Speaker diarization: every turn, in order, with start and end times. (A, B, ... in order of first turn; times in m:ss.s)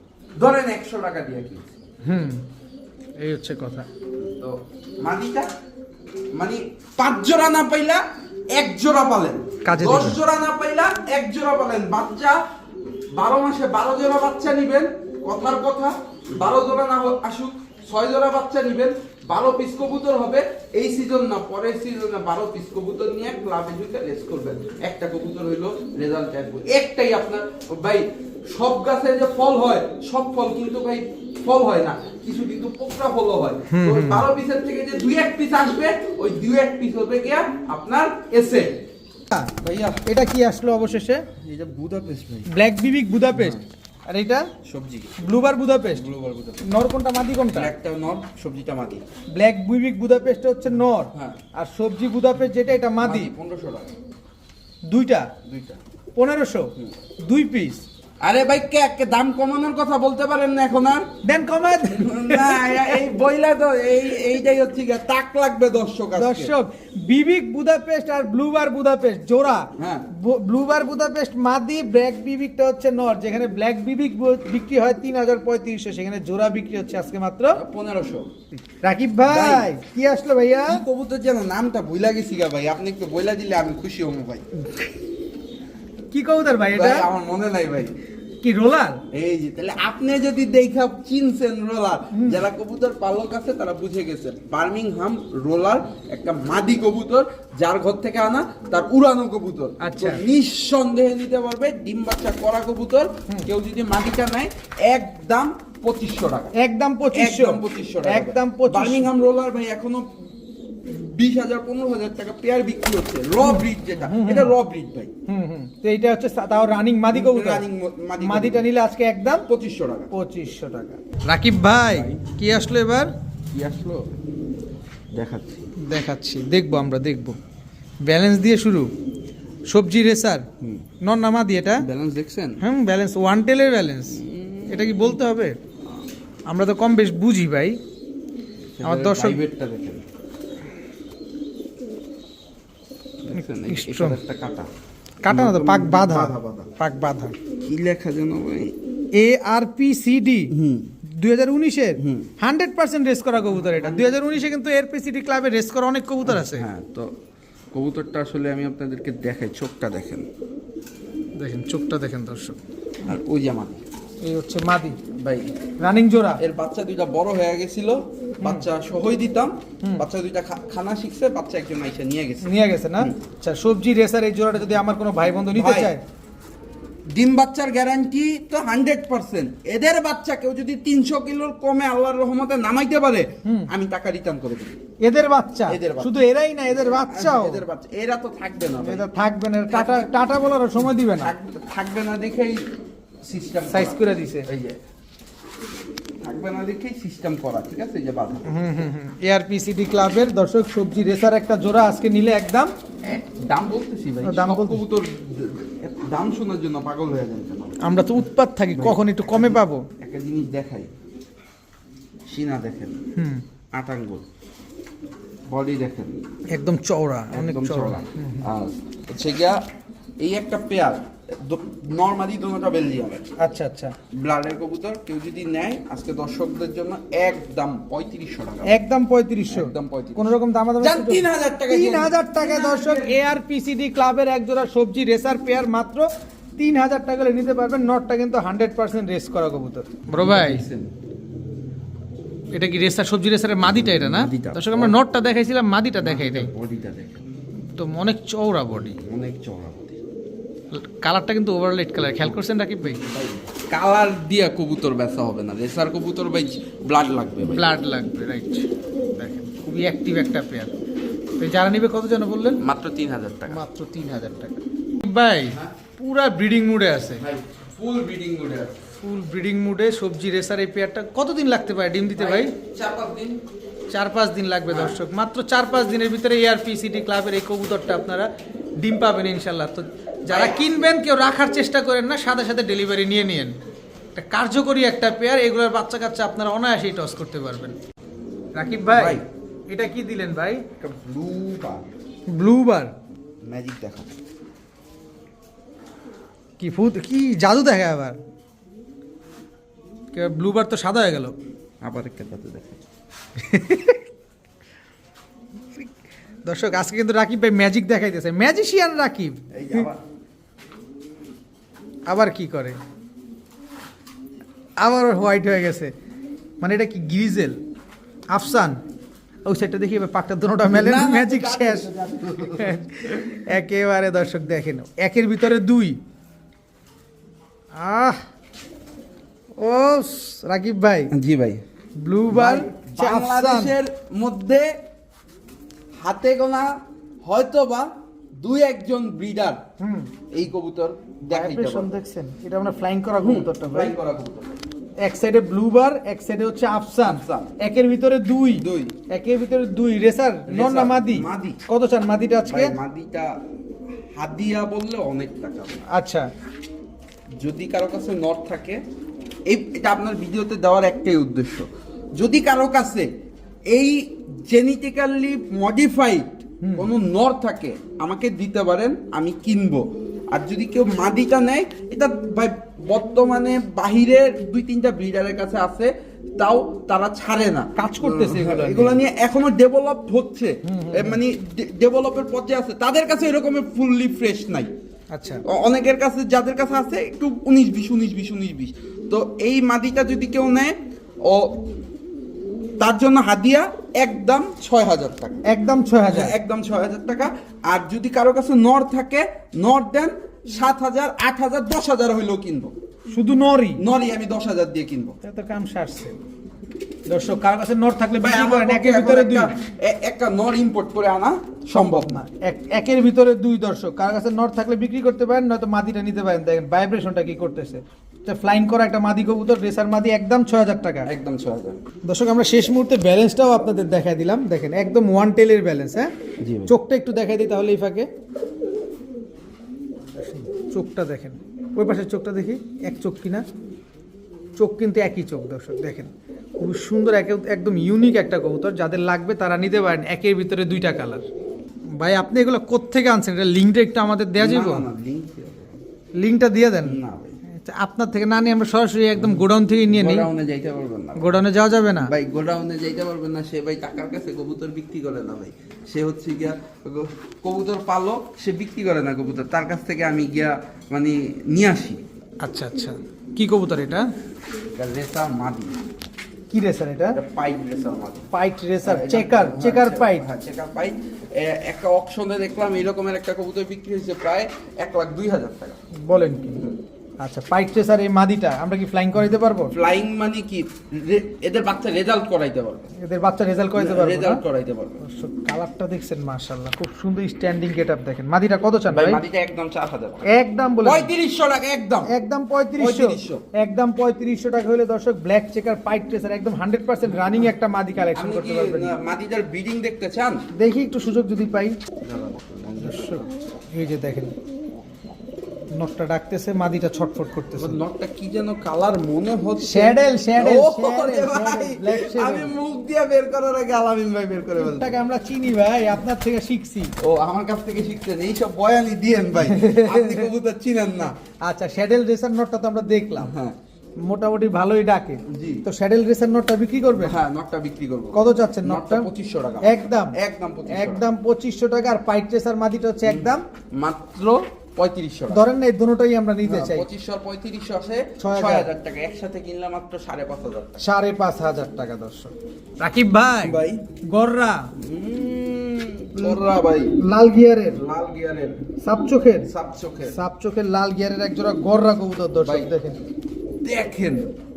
0:00.4-0:01.8 A
0:02.0-0:02.4 B
0:03.2-0:03.9 B
0:04.2-0:05.5 A
0:06.3-0:08.0 A
0:08.5-0:12.4 A
0:09.6-0:10.2 B
0:13.1-0:38.8 A
0:33.7-0:34.3 B
0:39.3-0:41.2 B
0:39.6-0:40.0 A
0:41.4-0:42.5 A
0:42.5-0:44.5 B
0:43.3-0:43.6 A
0:44.6-0:45.2 A
0:45.2-0:46.0 B
0:45.9-0:46.6 A
0:46.6-0:47.7 B
0:47.5-0:49.0 A
0:49.3-0:53.3 B
0:51.1-0:51.4 A
0:53.0-0:53.9 A
0:54.9-0:55.3 B
0:55.4-0:55.8 A
0:56.1-0:56.7 B
0:57.2-0:57.8 B
0:58.2-1:01.1 A
1:01.2-1:03.1 B
1:01.8-1:06.5 A
1:06.2-1:17.6 B
1:09.8-1:10.1 A
1:17.5-1:18.3 A
1:18.5-1:20.8 B
1:19.2-1:19.7 A
1:20.7-1:24.5 A
1:26.1-1:27.1 B
1:26.7-1:28.0 A
1:28.4-1:29.0 B
1:29.1-1:46.6 A
1:32.1-1:32.4 B
1:39.8-1:40.2 B
1:46.6-1:49.1 B
1:47.1-1:50.3 A
1:50.8-1:55.1 A
1:53.4-1:54.5 B
1:55.3-1:57.6 B
1:57.1-1:58.6 A
1:58.2-1:59.4 B
1:59.4-2:00.1 A
2:00.1-2:03.1 B
2:01.8-2:02.3 A
2:03.5-2:04.1 A
2:05.1-2:05.7 A
2:05.8-2:07.4 B
2:08.0-2:08.9 B
2:09.7-2:10.4 B
2:10.6-2:10.9 A
2:11.0-2:11.8 B
2:11.8-2:12.6 A
2:12.6-2:14.2 B
2:14.1-2:15.0 A
2:14.7-2:15.6 B
2:16.5-2:17.8 B
2:18.7-2:20.0 A
2:18.8-2:19.4 B
2:23.2-2:24.7 A
2:23.3-2:24.2 B
2:25.2-2:27.3 B
2:25.3-2:26.7 A
2:27.6-2:28.7 A
2:29.1-2:30.5 B
2:30.5-2:30.9 A
2:31.0-2:36.6 B
2:32.0-2:32.3 A
2:33.5-2:34.2 A
2:36.2-2:37.1 A
2:37.7-2:40.3 A
2:41.4-2:42.6 B
2:43.0-2:43.8 A
2:44.2-2:45.0 B
2:45.1-2:45.5 A
2:45.8-2:46.4 B
2:46.4-2:53.2 A
2:48.4-2:48.7 B
2:52.4-2:56.0 B
2:55.5-2:55.9 A
2:57.1-3:04.8 A
3:03.4-3:03.7 B
3:05.0-3:07.6 B
3:05.7-3:06.1 A
3:06.7-3:09.1 A
3:08.8-3:11.3 B
3:09.7-3:10.1 A
3:10.8-3:12.7 A
3:13.2-3:14.8 A
3:13.7-3:14.5 B
3:16.2-3:18.6 A
3:18.4-3:22.7 B
3:23.0-3:27.8 A
3:24.2-3:24.8 B
3:27.8-3:29.9 B
3:28.7-3:30.9 A
3:32.3-3:33.0 A
3:33.2-3:33.4 B
3:33.7-3:34.2 A
3:35.5-3:36.2 A
3:36.5-3:38.5 B
3:37.3-3:39.6 A
3:40.2-3:43.3 A
3:43.4-3:43.9 B
3:44.1-3:48.8 A
3:48.7-4:00.6 B
3:49.5-3:53.2 A
4:00.2-4:00.9 A
4:02.5-4:06.5 B
4:03.9-4:05.0 A
4:06.0-4:07.2 A
4:07.8-4:09.0 B
4:08.7-4:10.0 A
4:10.7-4:13.0 B
4:12.9-4:17.7 A
4:17.5-4:20.7 B
4:21.4-4:22.6 B
4:22.6-4:23.6 A
4:23.5-4:27.2 B
4:27.2-4:28.8 A
4:29.0-4:32.5 B
4:32.1-4:33.4 A
4:33.9-4:43.6 B
4:34.7-4:35.0 A
4:40.3-4:40.9 A
4:44.1-4:47.8 B
4:48.5-4:50.6 B
4:48.9-4:49.2 A
4:50.8-4:51.9 A
4:52.3-4:52.9 B
4:53.4-4:54.1 A
4:56.6-4:58.2 B
5:00.1-5:01.4 B
5:01.8-5:02.8 A
5:03.4-5:04.0 B
5:06.4-5:09.9 B
5:09.5-5:10.0 A
5:12.1-5:12.8 B
5:14.8-5:15.9 B
5:16.6-5:17.6 B
5:18.3-5:18.8 B
5:19.4-5:21.9 B
5:20.6-5:23.4 A
5:22.4-5:26.0 B
5:27.7-5:28.2 B
5:29.6-5:31.1 B
5:31.1-5:31.6 A
5:32.0-5:33.8 B
5:32.3-5:34.8 A
5:36.0-5:39.6 A
5:39.8-5:40.1 B
5:40.3-5:41.9 A
5:41.3-5:43.9 B
5:43.2-5:44.6 A
5:45.0-5:52.7 B
5:47.0-5:47.6 A
5:48.5-5:48.9 A
5:50.5-5:51.6 A
5:52.5-5:53.3 A
5:54.1-5:55.8 A
5:55.9-5:56.3 B
5:57.4-5:58.8 A
5:59.5-6:03.1 A
6:03.7-6:24.7 A
6:06.6-6:06.9 B
6:17.8-6:19.0 B
6:20.6-6:21.2 B
6:25.1-6:25.4 B
6:25.4-6:31.6 A
6:32.8-6:35.4 A
6:35.4-6:36.4 B
6:36.0-6:42.7 A
6:43.1-6:43.8 B
6:43.8-6:45.2 A
6:45.2-6:46.2 B
6:47.1-6:49.5 B
6:48.2-6:52.2 A
6:51.7-7:01.1 B
7:01.0-7:01.8 A
7:02.0-7:06.1 B
7:06.4-7:06.7 A
7:06.7-7:08.1 B
7:10.2-7:13.4 B
7:14.6-7:21.2 B
7:22.0-7:24.8 B
7:24.4-7:25.8 A
7:26.1-7:30.3 B
7:26.8-7:27.4 A
7:29.2-7:31.4 A
7:31.2-7:32.1 B
7:32.0-7:42.0 A
7:42.4-7:44.1 B
7:44.7-7:45.7 A
7:46.5-7:47.2 B
7:47.1-7:48.3 A
7:48.3-7:50.2 B
7:48.8-7:55.8 A
7:55.9-7:56.6 B
7:57.2-7:59.7 B
7:59.7-8:02.9 A
8:03.0-8:04.4 B
8:03.8-8:05.0 A
8:05.0-8:09.2 B
8:08.9-8:10.2 A
8:10.3-8:11.1 B
8:10.8-8:12.1 A
8:12.1-8:19.0 B
8:12.8-8:13.4 A
8:18.1-8:20.4 A
8:20.5-8:21.8 B
8:22.0-8:23.3 A
8:22.8-8:24.3 B
8:25.7-8:27.8 B
8:27.6-8:35.0 A
8:29.6-8:32.5 B
8:34.8-8:36.9 B
8:37.0-8:41.1 A
8:39.4-8:40.3 B
8:41.2-8:43.3 B
8:43.2-8:43.6 A
8:44.0-8:47.2 B
8:45.2-8:45.6 A
8:47.0-8:51.0 A
8:48.1-8:49.1 B
8:49.6-8:50.2 B
8:50.7-8:53.4 B
8:53.0-8:55.4 A
8:55.3-8:56.9 B
8:56.4-9:00.8 A
8:58.2-8:58.7 B
9:00.8-9:04.7 B
9:03.4-9:03.8 A
9:04.7-9:07.0 A
9:06.2-9:06.4 B
9:07.0-9:07.8 B
9:07.7-9:08.7 A
9:08.8-9:09.5 B
9:09.4-9:10.2 A
9:10.1-9:13.0 B
9:12.4-9:12.7 A
9:13.6-9:14.3 A